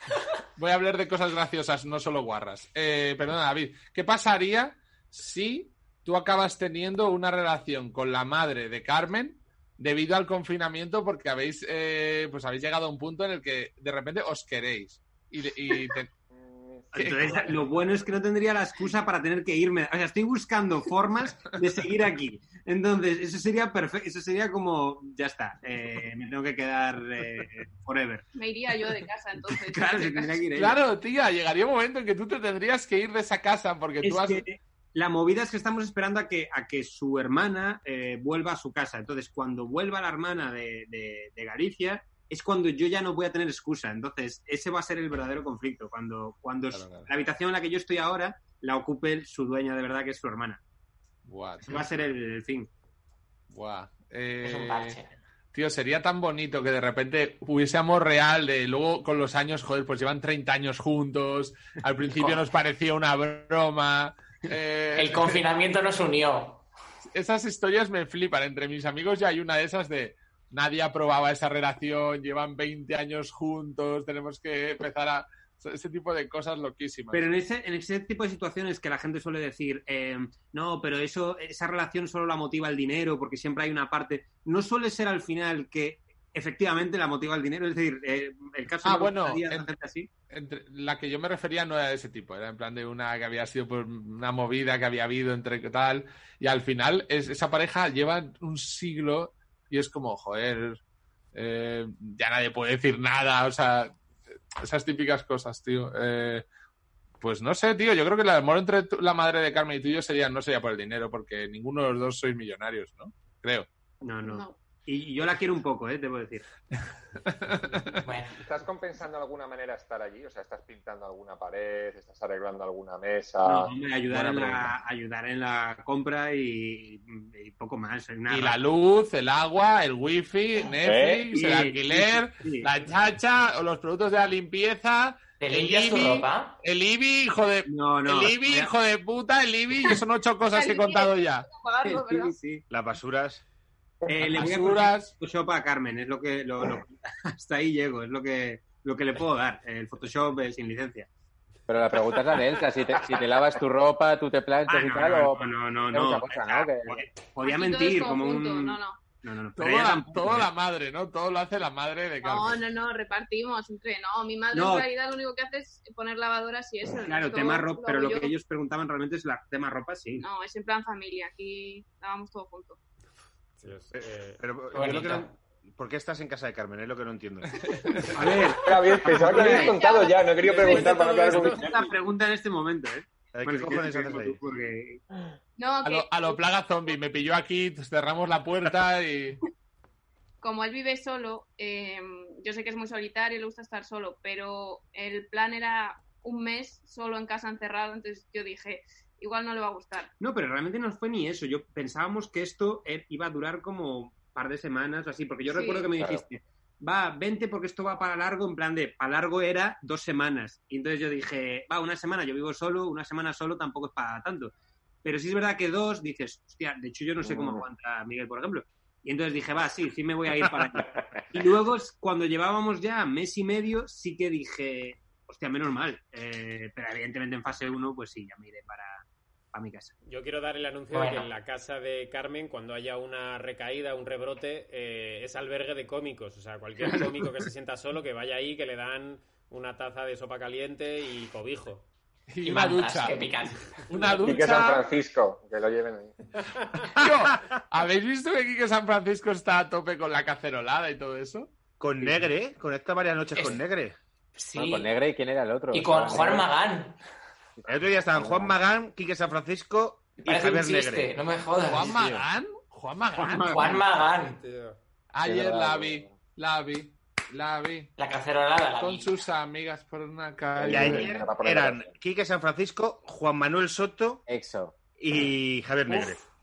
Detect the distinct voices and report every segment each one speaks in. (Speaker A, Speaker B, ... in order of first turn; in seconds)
Speaker A: 0.6-16.1, 17.0-17.5, 30.6-34.4, 46.7-47.1, 51.3-51.9, 53.5-55.0, 55.5-65.4, 67.1-77.3, 88.8-89.7, 90.3-100.8, 101.3-103.9, 104.6-106.5, 107.2-113.7, 117.2-118.0, 124.1-124.7, 128.3-141.5, 144.2-145.1, 159.6-162.6, 177.6-178.2, 185.8-189.4, 242.3-243.2, 243.9-244.8, 246.9-251.5, 261.6-263.6, 265.1-267.9, 268.8-271.1
Speaker B: 16.3-16.9, 118.4-123.7, 130.8-131.3, 178.6-181.9, 217.2-217.7, 244.2-246.2, 270.6-271.9
Speaker C: 16.9-28.2, 29.5-30.8, 34.0-50.6, 51.7-52.7, 77.1-90.1, 114.0-116.5, 123.4-128.6, 131.3-132.7, 137.7-138.7, 141.8-142.6, 144.1-151.1, 154.7-160.5, 164.5-164.9, 167.1-170.3, 178.1-179.8, 180.6-185.0, 200.2-214.5, 215.0-229.9, 263.2-263.8
Speaker D: 28.4-30.4, 114.2-114.6, 140.5-142.4, 157.4-159.0, 162.2-168.3, 170.2-172.8, 179.3-180.9, 185.6-186.4, 190.4-200.1, 205.5-206.0
Speaker E: 54.4-55.1, 62.1-62.4, 65.0-66.6, 118.0-118.4, 135.4-136.6, 174.7-175.3, 230.9-231.3, 242.4-243.7, 253.3-253.6, 254.3-254.9, 255.7-257.0, 260.2-262.0, 263.4-264.4, 268.0-269.1, 275.9-276.2
Speaker F: 142.7-143.4, 173.9-177.6, 183.3-184.4, 251.8-254.0, 257.7-261.1, 261.9-262.2, 270.6-274.2, 275.0-276.2
Speaker G: 151.7-157.0, 254.6-256.5, 258.1-258.5, 265.2-266.1, 274.3-274.8
Speaker H: 173.6-174.4, 180.4-181.7, 230.0-241.8, 264.2-264.8